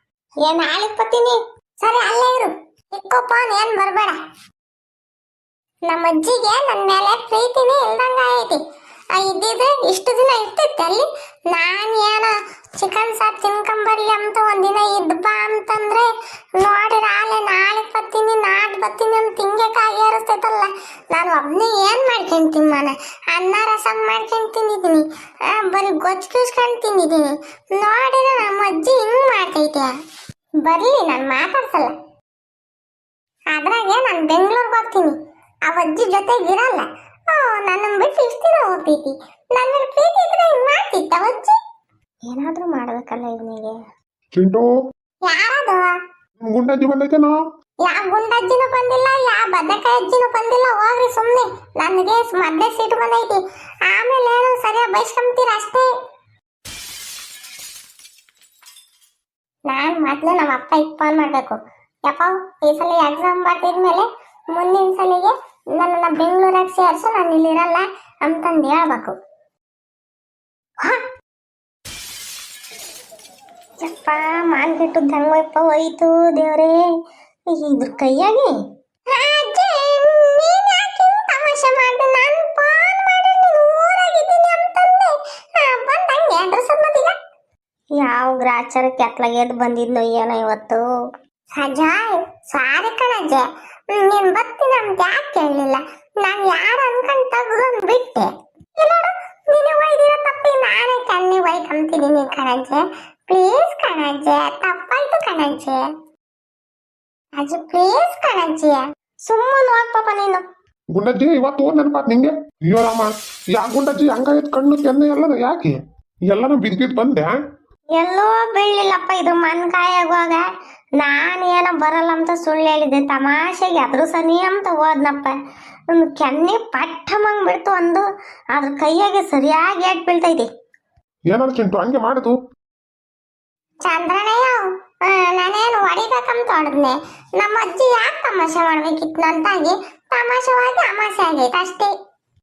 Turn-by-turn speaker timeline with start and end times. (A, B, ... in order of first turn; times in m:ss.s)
0:00.4-0:04.2 A
0:05.9-0:08.6 A
0:09.1-0:30.0 A
0:30.6-0:32.0 A
0:33.5-0:35.2 A
0:35.7-0:41.6 A
0:42.2-0:43.8 A
0:44.3-0:44.7 B
0:45.2-0:46.0 A
0:46.4-0:47.4 B
0:47.8-0:55.9 A
0:59.7-1:09.2 A
1:13.8-1:16.8 A
1:17.5-1:27.2 A
1:27.9-1:30.8 A
1:31.5-1:45.9 A
1:47.4-1:50.4 A
1:50.9-1:57.3 B
1:57.9-2:00.4 A
2:01.0-2:05.4 A
2:05.9-2:10.5 A
2:11.3-2:12.4 B
2:13.8-2:21.9 A